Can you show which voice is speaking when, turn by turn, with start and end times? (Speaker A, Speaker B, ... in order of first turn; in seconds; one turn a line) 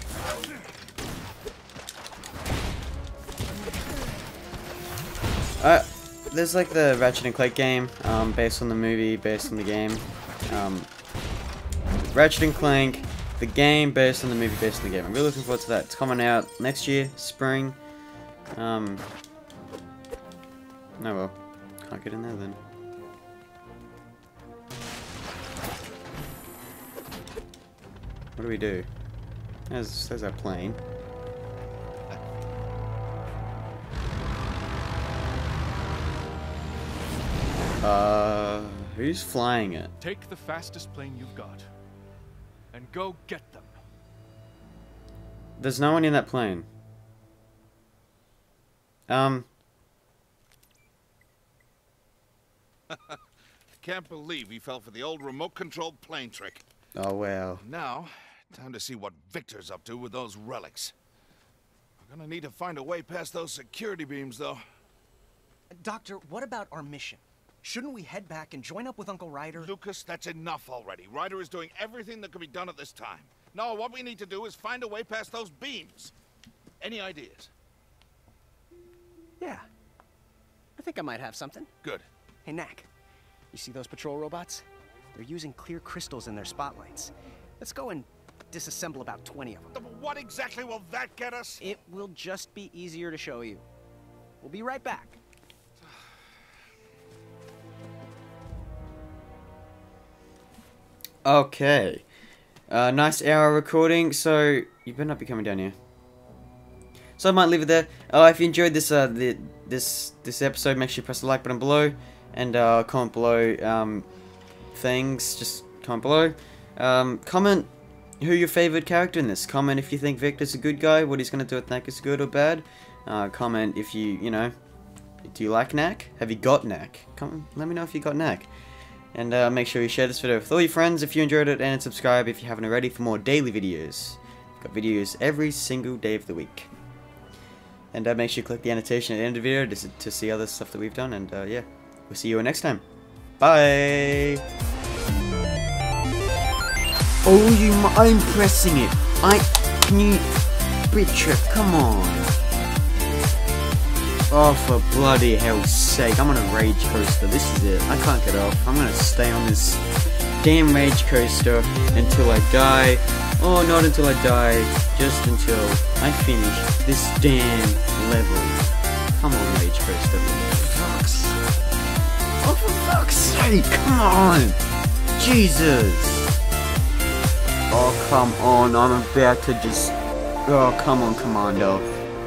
Speaker A: 5.6-10.9
Speaker A: 12.1-17.8
Speaker A: 18.6-19.1
Speaker A: 21.0-22.6
Speaker A: 28.4-28.9
Speaker A: 29.7-30.8
Speaker A: 37.8-39.9
Speaker B: 40.0-41.7
Speaker B: 42.7-43.8
Speaker A: 45.6-46.7
Speaker A: 49.1-49.5
Speaker C: 52.9-53.2
Speaker C: 53.8-56.6
Speaker A: 57.0-57.6
Speaker C: 57.6-61.0
Speaker C: 62.0-64.6
Speaker D: 65.7-69.7
Speaker C: 69.5-76.1
Speaker C: 76.8-77.5
Speaker D: 79.4-79.7
Speaker D: 80.8-81.7
Speaker C: 81.8-82.1
Speaker D: 82.5-82.9
Speaker D: 83.5-89.8
Speaker C: 89.7-91.6
Speaker D: 91.6-93.7
Speaker D: 94.4-95.2
Speaker A: 101.2-102.0
Speaker A: 102.7-105.8
Speaker A: 107.2-114.1
Speaker A: 114.7-124.5
Speaker A: 125.2-128.5
Speaker A: 129.1-136.7
Speaker A: 137.9-142.8
Speaker A: 143.4-144.4
Speaker A: 147.2-150.3
Speaker A: 150.9-152.3
Speaker A: 154.3-159.8
Speaker A: 160.4-168.6
Speaker A: 169.2-171.4
Speaker A: 172.4-174.6
Speaker A: 175.2-176.3
Speaker A: 177.7-181.9